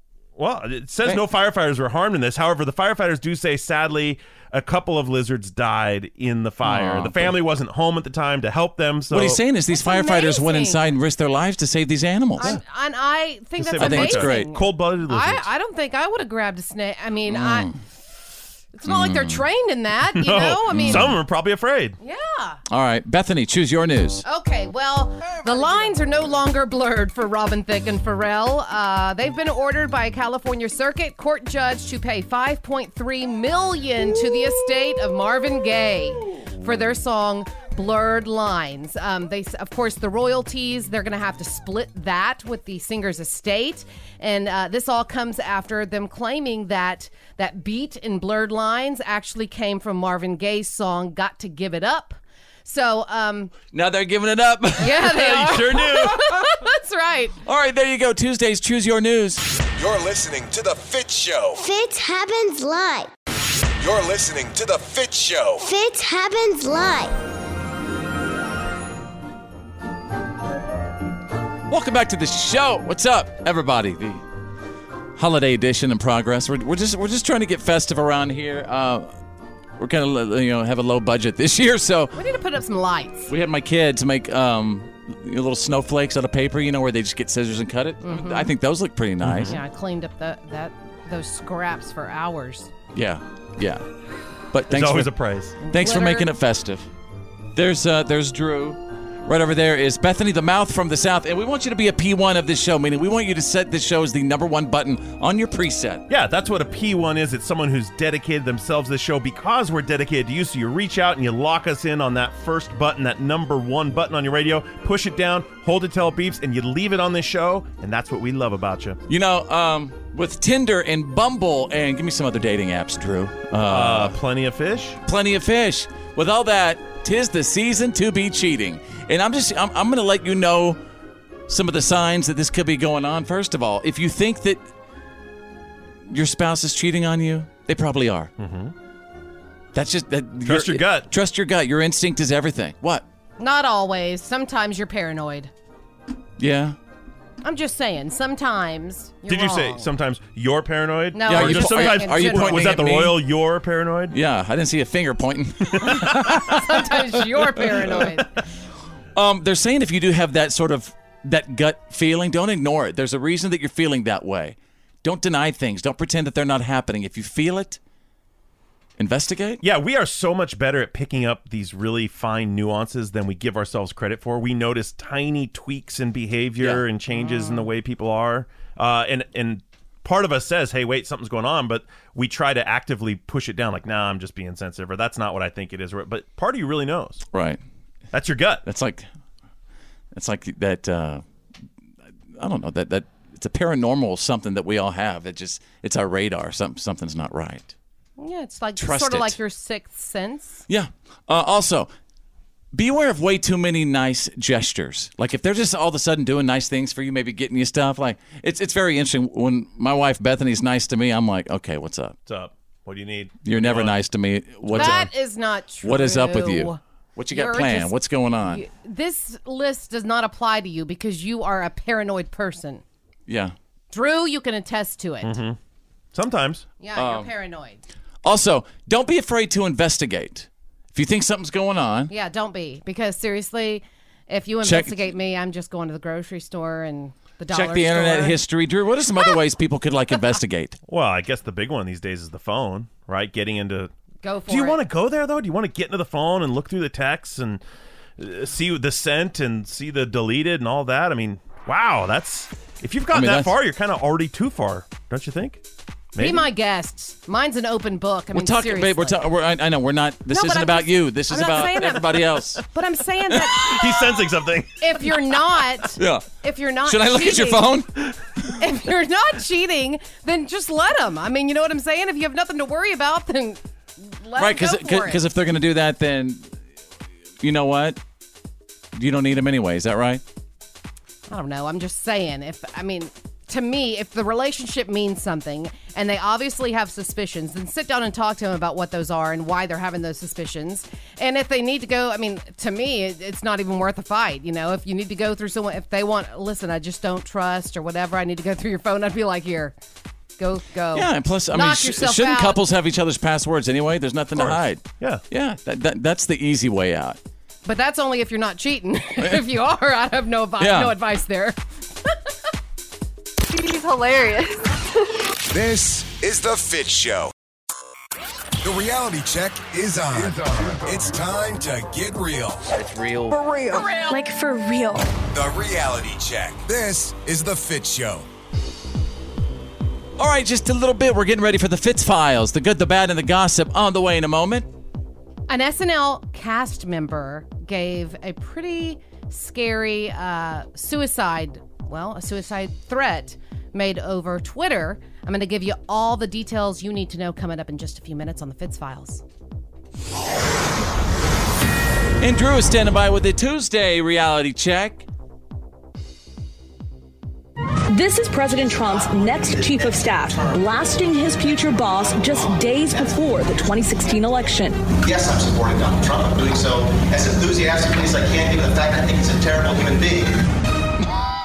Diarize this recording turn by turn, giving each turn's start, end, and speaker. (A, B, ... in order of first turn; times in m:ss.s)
0:00.4-0:09.4 A
0:06.6-0:07.4 B
0:09.1-0:12.6 B
0:09.7-0:10.9 C
0:12.4-0:17.7 C
0:13.6-0:15.5 A
0:13.8-0:14.5 B
0:17.3-0:17.8 B
0:18.7-0:21.1 C
0:18.9-0:19.4 B
0:20.2-0:22.0 A
0:20.7-0:21.2 B
0:22.0-0:22.6 C
0:22.7-0:24.2 B
0:24.2-0:53.5 C
0:53.7-0:56.1 B
0:54.8-0:57.3 C
0:55.0-0:56.2 A
0:57.4-0:59.4 B
0:59.7-1:01.6 D
1:01.6-1:03.1 E
1:03.8-1:05.6 D
1:05.6-1:07.1 E
1:11.7-1:14.2 B
1:15.2-1:19.1 B
1:19.8-1:22.2 B
1:22.1-1:23.3 C
1:23.3-1:29.6 B
1:28.0-1:28.5 C
1:29.2-1:29.6 A
1:29.5-1:32.7 C
1:32.9-1:33.8 B
1:34.5-1:35.1 B
1:34.7-1:35.5 A
1:35.6-1:36.3 C
1:35.6-1:36.9 B
1:37.5-1:46.0 B
1:46.1-1:59.0 A
1:59.1-2:04.2 B
2:03.6-2:05.0 A
2:05.0-2:10.8 B
2:11.5-2:14.6 B
2:16.1-2:18.3 B
2:18.4-2:18.7 A
2:19.7-2:23.0 B
2:20.4-2:21.1 A
2:23.4-2:25.5 C
2:26.4-2:26.8 B
2:27.4-2:29.9 C
2:29.3-2:34.2 A
2:31.1-2:32.7 C
2:31.3-2:33.2 B
2:34.1-2:36.7 B
2:35.9-2:38.3 C
2:37.4-2:38.0 B
2:39.2-2:47.8 B
2:49.0-2:49.6 B
2:49.6-3:07.2 A
2:57.1-2:57.7 C
3:07.3-3:07.6 B
3:08.1-3:08.6 A
3:08.6-3:09.0 B
3:10.1-3:11.2 B
3:12.4-3:17.7 B
3:18.2-3:20.6 C
3:18.8-3:19.4 B
3:20.7-3:21.9 B
3:22.7-3:32.2 B
3:32.3-3:33.9 A
3:33.4-3:35.1 B
3:34.7-3:36.8 C
3:35.8-3:38.6 B
3:37.3-3:37.9 C
3:38.5-3:42.8 C
3:43.3-3:43.5 B
3:43.9-3:45.3 C
3:45.2-3:45.6 A
3:46.1-3:46.6 A
3:46.8-3:47.8 C
3:46.9-3:47.3 B
3:48.2-3:52.1 B
3:52.1-3:58.4 C
3:54.6-3:55.1 B
3:57.5-4:00.8 B
4:00.9-4:03.9 A
4:04.2-4:04.8 C
4:04.5-4:07.6 A
4:08.2-4:15.6 A
4:13.1-4:13.5 B
4:16.1-4:16.4 A
4:16.2-4:19.2 C
4:18.3-4:22.6 B
4:20.3-4:23.8 C
4:23.6-4:24.8 A
4:24.8-4:27.7 C
4:26.0-4:28.0 B
4:28.6-4:35.2 C
4:34.4-4:36.5 B
4:37.4-4:38.0 B
4:39.0-4:40.2 B
4:41.3-4:59.8 C
5:00.4-5:02.6 C
5:00.9-5:07.2 B
5:04.4-5:05.2 A
5:07.6-5:12.1 C
5:10.6-5:10.9 B
5:13.5-5:14.6 C
5:15.5-5:17.3 D
5:18.6-5:22.6 D
5:23.8-5:24.4 F
5:25.3-5:28.2 D
5:30.2-5:34.6 B
5:35.5-5:49.2 C
5:52.2-5:55.0 B
5:57.9-6:04.8 F
5:58.9-6:00.6 G
6:05.0-6:10.4 G